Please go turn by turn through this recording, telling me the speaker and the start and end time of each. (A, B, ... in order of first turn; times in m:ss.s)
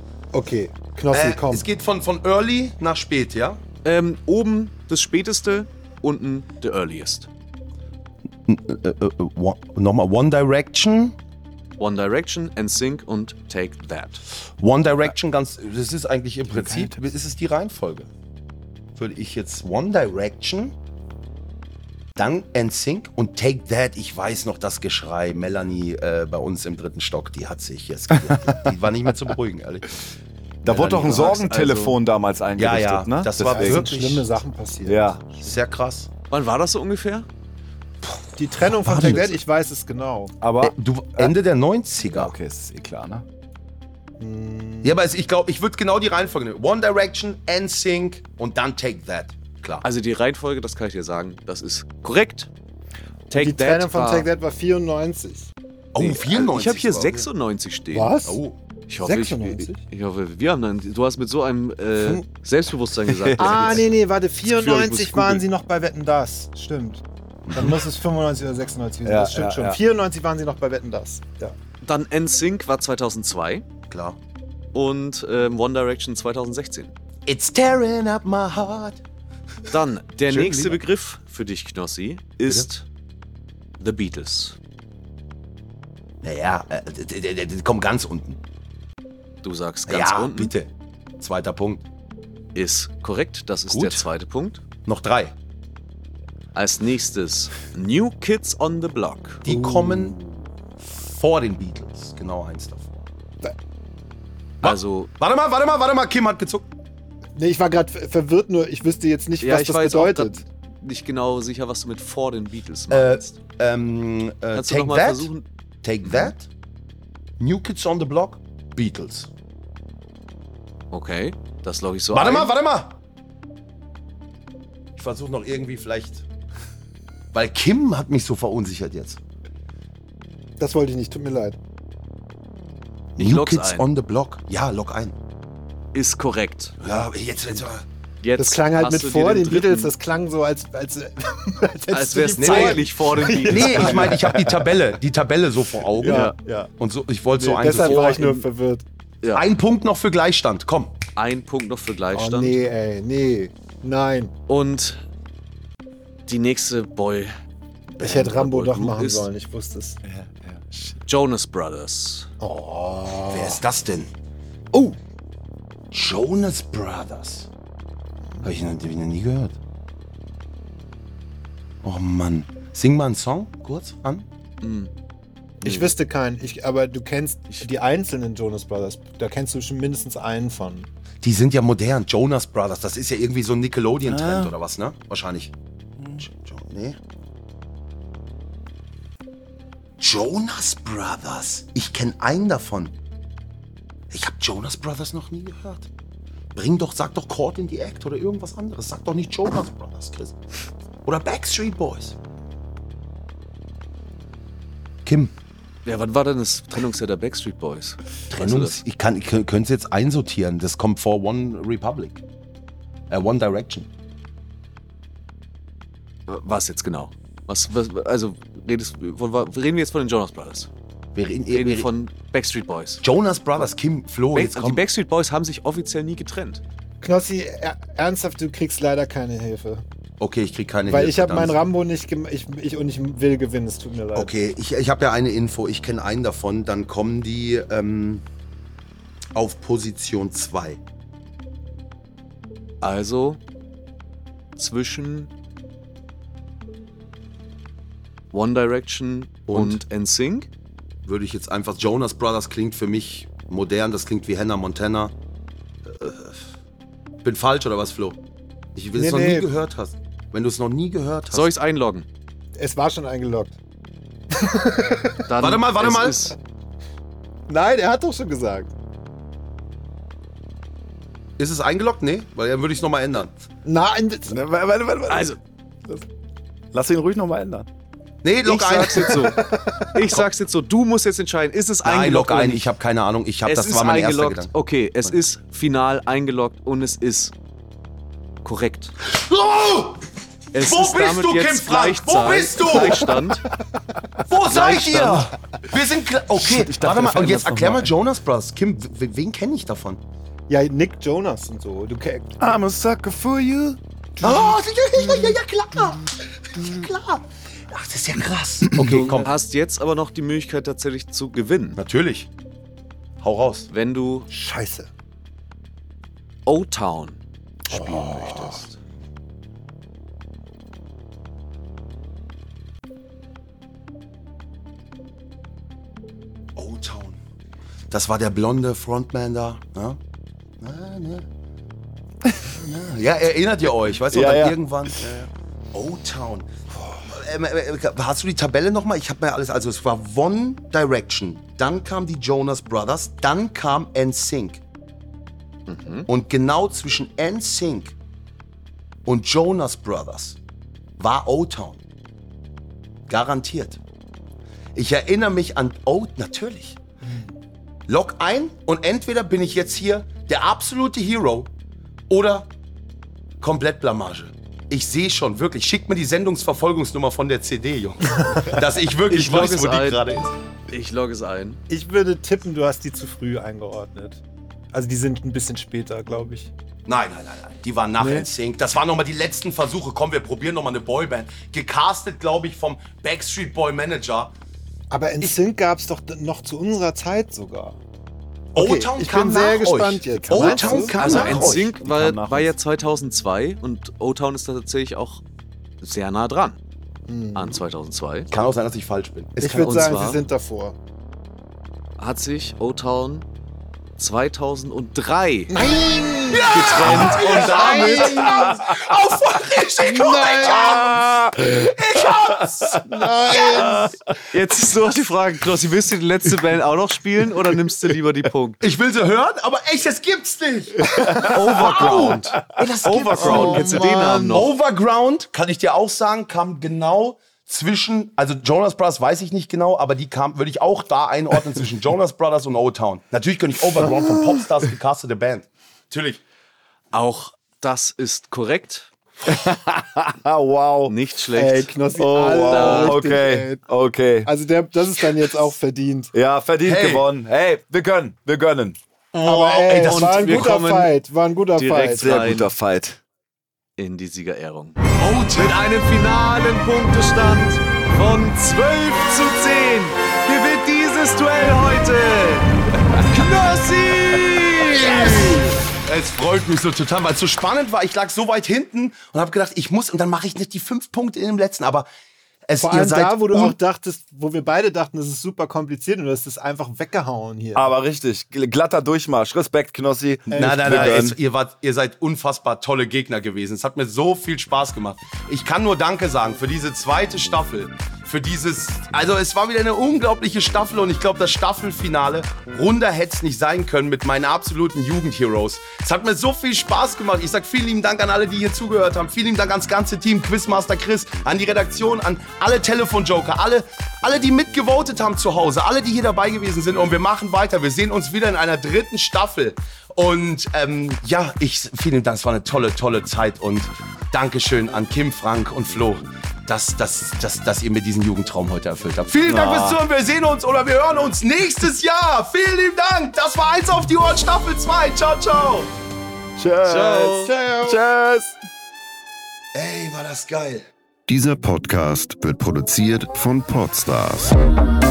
0:00.3-0:01.7 A
0:01.1-0:03.6 B
0:03.8-0:07.3 C
0:08.5-0:11.2 B
0:11.8-0:14.2 C
0:14.6-0:18.1 B
0:16.5-0:17.0 D
0:19.0-0:20.8 B
0:22.2-0:30.0 B
0:30.6-0:33.9 D
0:30.6-0:32.0 C
0:32.6-0:34.3 B
0:33.4-0:35.6 A
0:34.9-0:35.2 D
0:35.4-0:36.1 B
0:36.3-0:37.3 C
0:38.4-0:40.4 A
0:38.7-0:39.3 B
0:40.4-0:41.4 D
0:40.6-0:42.4 B
0:42.1-0:43.2 D
0:44.2-0:45.0 A
0:44.8-0:49.8 B
0:49.8-0:52.5 C
0:53.3-0:54.3 C
0:53.3-0:55.5 A
0:55.9-0:57.3 B
0:56.0-0:58.2 C
0:57.9-0:58.4 A
0:58.2-0:58.6 B
0:58.9-1:05.5 C
0:59.0-0:59.8 A
1:02.0-1:02.2 A
1:03.1-1:03.8 D
1:03.4-1:11.6 A
1:07.5-1:07.8 B
1:09.0-1:09.8 D
1:11.8-1:13.7 C
1:13.9-1:14.2 B
1:14.7-1:16.9 C
1:17.3-1:19.0 B
1:19.7-1:22.8 C
1:20.3-1:20.8 B
1:23.8-1:24.6 C
1:26.2-1:28.4 B
1:29.4-1:30.5 C
1:29.9-1:31.8 B
1:32.6-1:34.6 C
1:33.7-1:34.1 B
1:34.9-1:35.3 B
1:36.5-1:39.4 C
1:39.4-1:40.2 B
1:39.5-1:40.3 A
1:40.8-1:43.1 B
1:44.6-1:45.1 C
1:44.6-1:46.7 B
1:47.4-1:50.5 A
1:49.4-1:53.4 C
1:52.9-1:55.3 B
1:54.5-1:55.4 C
1:55.8-1:56.5 B
1:57.4-1:59.3 B
2:00.9-2:02.5 C
2:02.1-2:02.9 B
2:05.0-2:06.2 B
2:07.3-2:09.2 B
2:10.6-2:11.6 A
2:13.2-2:13.9 C
2:13.2-2:15.2 B
2:15.9-2:16.8 C
2:16.8-2:17.8 B
2:18.2-2:19.9 C
2:18.4-2:24.8 A
2:21.9-2:24.1 C
2:22.4-2:22.8 B
2:23.5-2:28.4 B
2:25.8-2:26.7 A
2:26.1-2:26.4 C
2:27.4-2:28.8 A
2:27.8-2:28.4 C
2:29.3-2:31.0 B
2:31.2-2:32.6 C
2:32.1-2:34.3 A
2:34.5-2:35.0 C
2:36.3-2:37.3 C
2:37.9-2:40.0 A
2:38.0-2:39.3 C
2:40.0-2:41.0 D
2:41.1-2:42.3 C
2:42.4-2:43.6 A
2:43.3-2:44.1 B
2:45.9-2:47.5 B
2:48.4-2:49.6 B
2:51.8-2:54.3 B
2:54.6-2:54.9 C
2:55.6-3:00.9 A
2:55.6-2:55.9 C
3:01.2-3:05.5 B
3:04.1-3:04.5 D
3:06.2-3:07.0 B
3:10.0-3:13.0 B
3:14.1-3:15.9 B
3:16.6-3:20.4 B
3:21.0-3:22.2 B
3:25.0-3:25.3 B
3:25.8-3:28.8 C
3:28.3-3:32.2 B
3:33.1-3:33.9 B
3:36.3-3:40.7 C
3:41.2-3:41.9 B
3:41.5-3:43.0 C
3:43.0-3:44.8 B
3:44.3-3:46.6 C
3:47.0-3:49.8 A
3:50.2-3:51.6 B
3:50.9-3:54.3 A
3:54.2-3:58.2 B
3:59.4-4:00.8 B
4:02.8-4:03.4 C
4:04.6-4:05.3 C
4:08.3-4:10.5 C
4:09.5-4:09.8 B
4:11.0-4:15.1 B
4:15.9-4:16.4 B
4:17.2-4:18.2 B
4:18.8-4:21.5 B
4:18.9-4:19.5 A
4:21.3-4:22.1 C
4:22.6-4:23.6 A
4:24.3-4:25.2 A
4:25.3-4:26.4 C
4:25.4-4:26.3 B
4:27.5-4:28.7 A
4:31.4-4:33.4 B
4:33.6-4:34.4 A
4:34.3-4:35.4 D
4:35.1-4:35.4 C
4:36.7-4:37.7 D
4:38.2-4:39.2 B
4:38.4-4:39.4 C
4:39.2-4:40.0 A
4:39.9-4:42.7 C
4:41.8-4:44.5 B
4:43.4-4:47.3 C
4:48.4-4:48.9 C
4:49.1-4:50.0 B
4:50.5-4:53.5 C
4:50.6-4:53.2 B
4:54.3-5:00.0 B
4:54.3-4:55.3 C
4:56.4-4:57.9 D
5:00.5-5:02.6 A
5:02.4-5:03.8 D
5:04.2-5:05.3 A
5:04.2-5:09.3 B
5:08.8-5:11.8 C
5:11.8-5:12.3 B
5:13.2-5:13.7 B
5:13.7-5:14.3 C
5:14.3-5:14.9 A
5:16.5-5:18.8 C
5:17.7-5:18.6 A
5:26.6-5:27.2 B
5:27.9-5:30.0 B
5:30.6-5:31.3 B
5:32.2-5:32.6 D
5:32.6-5:44.6 B
5:34.1-5:35.2 D
5:45.7-5:46.1 C
5:46.1-5:48.0 B
5:49.1-5:50.4 B
5:51.0-5:51.8 B
5:53.1-5:53.8 B
5:54.8-5:56.8 B
5:57.9-6:01.5 B
6:02.1-6:02.5 B
6:03.4-6:10.3 B
6:09.1-6:10.0 C
6:10.7-6:11.6 C
6:11.7-6:14.2 A
6:14.7-6:16.5 A
6:16.9-6:24.3 B
6:18.0-6:18.3 A
6:24.9-6:27.8 A
6:28.6-6:31.4 A
6:28.6-6:31.7 B
6:30.3-6:32.5 D
6:30.9-6:35.2 C
6:35.8-6:36.6 C
6:37.1-6:37.6 A
6:37.4-6:38.3 C
6:38.3-6:40.1 B
6:39.4-6:40.8 A
6:39.5-6:40.2 C
6:42.0-6:43.3 C
6:44.0-6:45.6 C
6:45.5-6:48.8 A
6:46.3-6:50.9 B
6:46.5-6:48.3 C
6:49.8-6:51.4 A
6:51.6-6:53.6 B
6:52.1-6:52.7 D
6:52.8-6:54.0 A
6:53.5-6:54.0 D
6:54.3-6:58.6 C
6:58.6-7:16.2 B
7:00.9-7:02.6 D
7:01.2-7:04.5 C
7:03.2-7:04.5 A
7:16.9-7:18.9 C
7:19.2-7:21.0 D
7:20.9-7:21.7 C
7:21.3-7:23.7 A
7:22.0-7:24.3 D
7:22.5-7:23.0 C
7:24.2-7:26.2 A
7:26.1-7:28.8 D
7:26.6-7:27.1 B
7:29.2-7:32.2 A
7:29.2-7:30.4 B
7:29.3-7:30.9 C
7:31.6-7:32.5 C
7:32.0-7:33.0 D
7:33.8-7:34.8 C
7:35.0-7:35.6 B
7:35.3-7:42.5 C
7:43.0-7:45.4 C
7:45.8-7:51.9 B
7:52.5-7:53.6 B
7:52.6-7:57.7 A
7:57.6-8:01.2 D
8:00.3-8:01.1 A
8:00.4-8:45.7 B
8:39.2-8:39.8 D
8:46.4-8:48.4 D
8:46.6-8:47.4 C
8:47.3-8:47.8 B
8:49.5-8:50.7 B
8:51.1-8:54.4 E